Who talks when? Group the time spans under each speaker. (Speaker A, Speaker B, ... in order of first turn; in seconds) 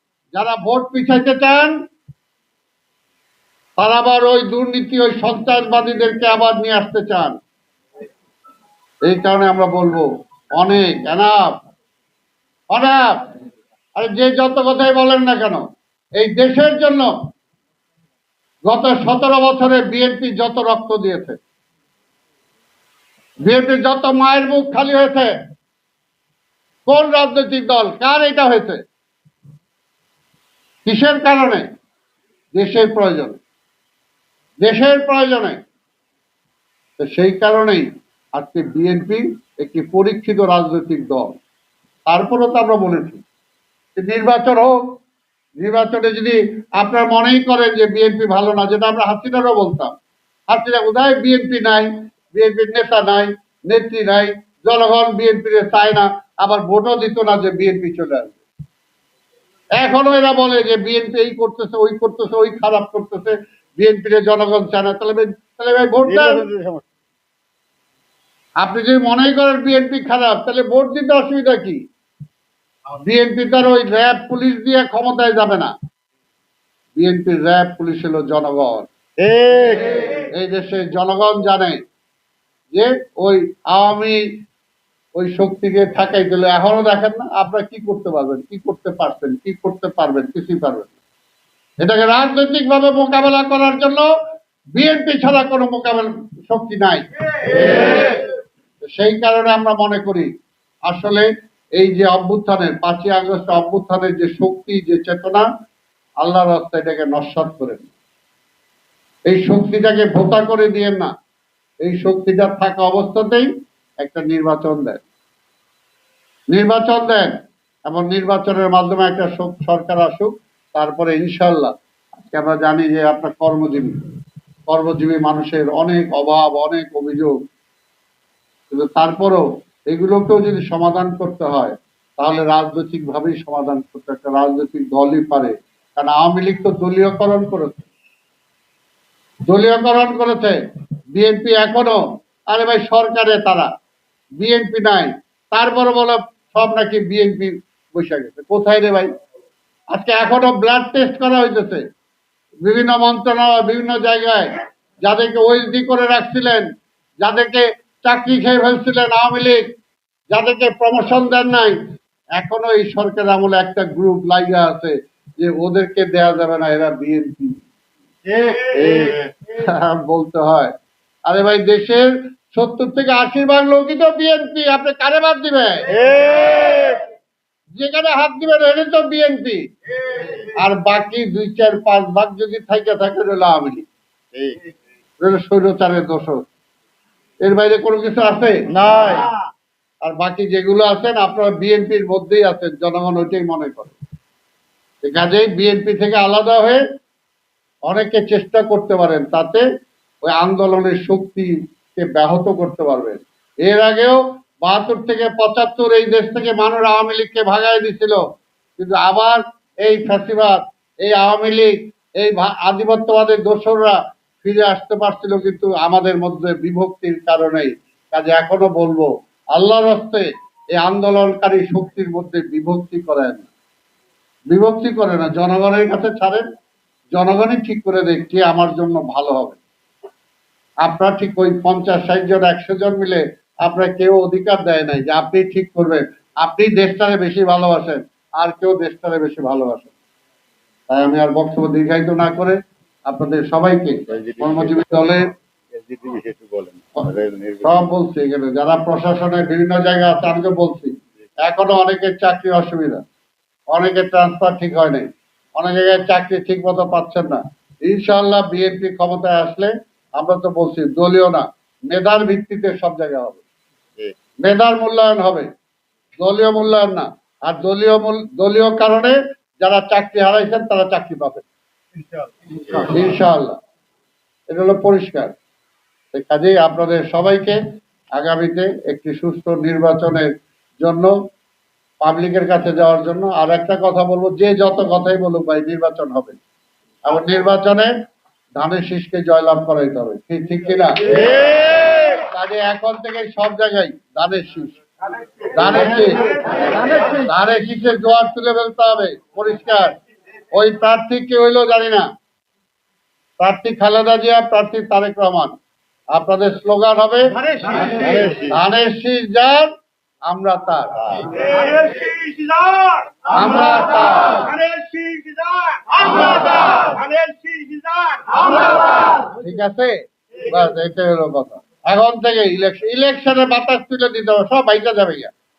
Speaker A: 0.3-1.7, 3.8-7.4, 9.1-11.6, 12.7-13.2, 14.0-15.6, 16.2-17.1, 18.7-21.4, 23.4-25.3, 26.9-28.8, 30.9-31.7, 32.6-33.4, 34.6-35.6, 37.0-41.4, 42.1-43.2, 44.0-44.8, 45.6-50.0, 50.5-58.4, 59.8-66.4, 68.6-71.8, 73.0-75.7, 77.0-78.9, 80.3-81.8, 82.7-84.2, 85.2-90.9, 91.8-94.1, 94.8-98.2, 98.8-100.3, 100.9-105.5, 106.2-107.9, 109.3-111.1, 111.8-113.5, 114.0-115.0, 116.5-117.3, 117.9-124.0, 124.7-127.3, 128.7-137.8, 139.5-140.6, 141.2-143.7, 144.4-149.1, 149.9-151.8, 152.6-156.7, 157.2-159.6, 160.3-161.8, 162.4-167.6, 169.5-170.7, 171.3-175.9, 177.8-179.6, 180.5-183.9, 185.2-186.5, 187.4-188.6, 190.0-193.9, 195.0-196.8, 197.9-199.7, 200.3-208.2, 208.8-223.5, 224.5-226.4, 227.1-229.6, 230.8-239.9, 240.9-245.3, 247.7-253.0, 253.7-263.4, 264.4-265.5, 266.2-271.5, 272.9-273.6, 274.5-275.3, 276.1-277.6, 278.2-281.1, 282.0-286.4, 287.1-287.9, 288.6-291.2, 292.2-294.8, 295.5-299.9, 300.6-302.1, 303.4-305.6, 306.1-309.7, 310.3-311.4, 313.3-314.6, 319.2-325.3
Speaker B: 66.0-66.8, 79.2-80.2, 168.3-169.3, 175.9-177.0, 184.3-184.6, 188.7-189.3, 244.1-244.9, 245.7-247.8, 291.2-291.8, 307.8-308.6, 311.1-311.4, 316.1-318.1